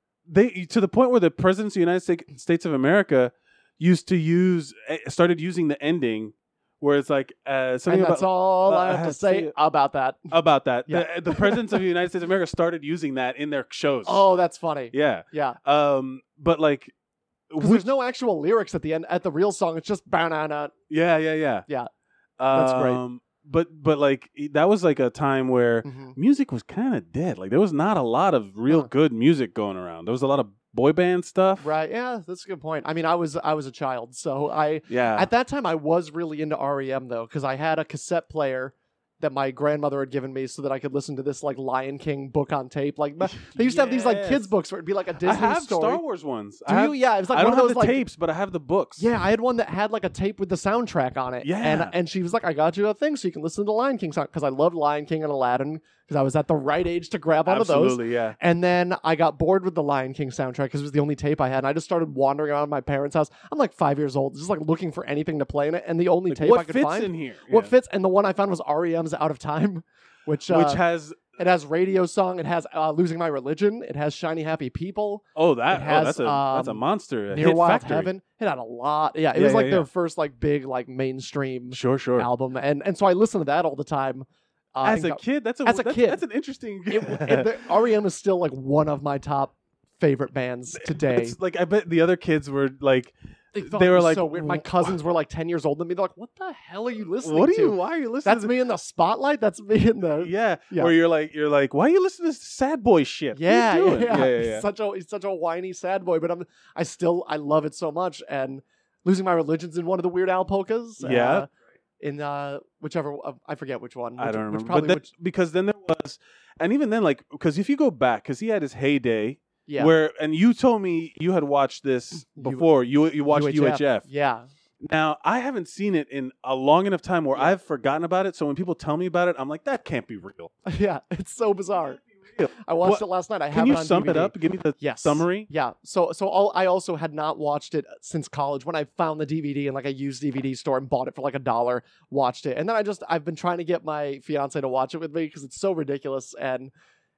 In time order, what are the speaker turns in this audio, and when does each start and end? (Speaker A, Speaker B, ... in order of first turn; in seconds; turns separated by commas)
Speaker A: 0.3-9.5, Speaker B: 7.9-10.3, Speaker A: 10.3-14.2, Speaker B: 10.9-11.6, Speaker B: 14.1-15.6, Speaker A: 14.9-16.9, Speaker A: 17.5-17.9, Speaker B: 17.6-20.7, Speaker A: 20.9-21.7, Speaker A: 22.4-31.7, Speaker B: 22.5-23.0, Speaker B: 25.8-26.2, Speaker B: 31.6-46.0, Speaker A: 34.9-35.3, Speaker A: 43.3-44.5, Speaker A: 45.2-49.1, Speaker B: 46.7-48.0, Speaker B: 49.0-70.8, Speaker A: 51.4-52.0, Speaker A: 57.5-58.4, Speaker A: 66.3-67.7, Speaker A: 70.5-71.3, Speaker B: 71.4-86.2, Speaker A: 75.3-78.1, Speaker A: 79.3-79.9, Speaker A: 81.7-82.3, Speaker A: 84.8-87.5, Speaker B: 86.9-91.4, Speaker A: 90.7-95.0, Speaker B: 93.5-100.9, Speaker A: 97.2-98.5, Speaker A: 100.2-104.7, Speaker B: 103.3-111.5, Speaker A: 111.0-111.5, Speaker B: 112.0-115.1, Speaker A: 114.2-124.1, Speaker B: 119.7-119.9, Speaker B: 122.3-122.7, Speaker B: 123.3-124.5, Speaker A: 124.8-130.5, Speaker B: 130.7-146.7, Speaker A: 132.0-135.5